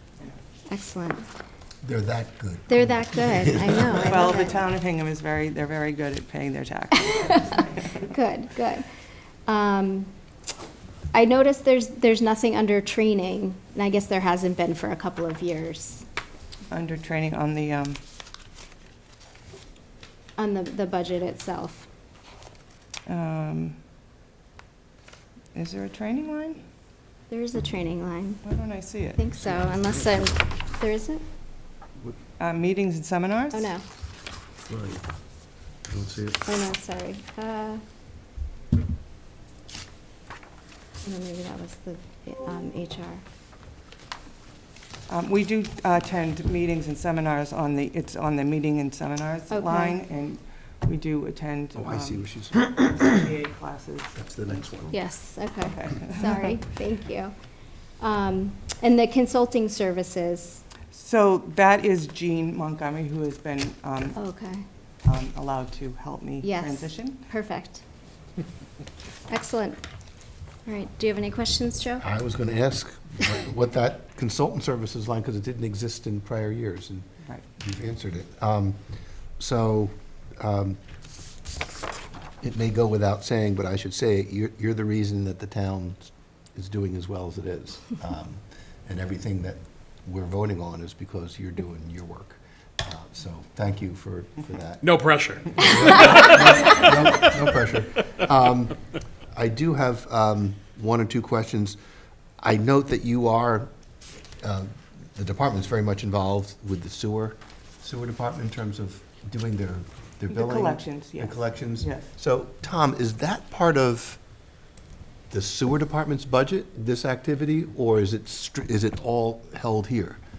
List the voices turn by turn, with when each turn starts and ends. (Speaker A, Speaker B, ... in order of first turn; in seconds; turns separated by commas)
Speaker A: 0.7-1.3, Speaker B: 1.8-4.3, Speaker A: 2.7-4.6, Speaker C: 4.1-8.0, Speaker A: 7.1-8.9, Speaker A: 9.5-10.1, Speaker A: 11.1-16.1, Speaker C: 16.7-18.0, Speaker A: 20.4-21.9, Speaker C: 23.1-23.8, Speaker C: 25.5-26.6, Speaker A: 27.3-28.4, Speaker C: 28.4-29.2, Speaker A: 29.2-31.2, Speaker C: 32.4-33.7, Speaker A: 33.5-33.8, Speaker B: 34.7-35.0, Speaker B: 35.9-36.4, Speaker A: 36.4-37.8, Speaker A: 41.0-43.2, Speaker C: 45.1-54.9, Speaker A: 49.5-50.0, Speaker B: 51.8-53.1, Speaker B: 54.2-54.9, Speaker A: 54.9-57.3, Speaker C: 55.6-56.5, Speaker A: 58.0-60.6, Speaker C: 60.9-64.2, Speaker A: 64.2-64.7, Speaker C: 65.0-67.2, Speaker A: 66.4-67.8, Speaker A: 69.3-69.8, Speaker A: 70.7-72.1, Speaker B: 72.0-77.1, Speaker B: 77.6-78.8, Speaker B: 79.4-80.8, Speaker B: 82.4-94.9, Speaker D: 94.8-97.3, Speaker B: 95.5-98.8, Speaker B: 99.3-101.8, Speaker B: 102.4-103.7, Speaker B: 104.4-114.2, Speaker C: 110.3-112.1, Speaker B: 115.3-120.2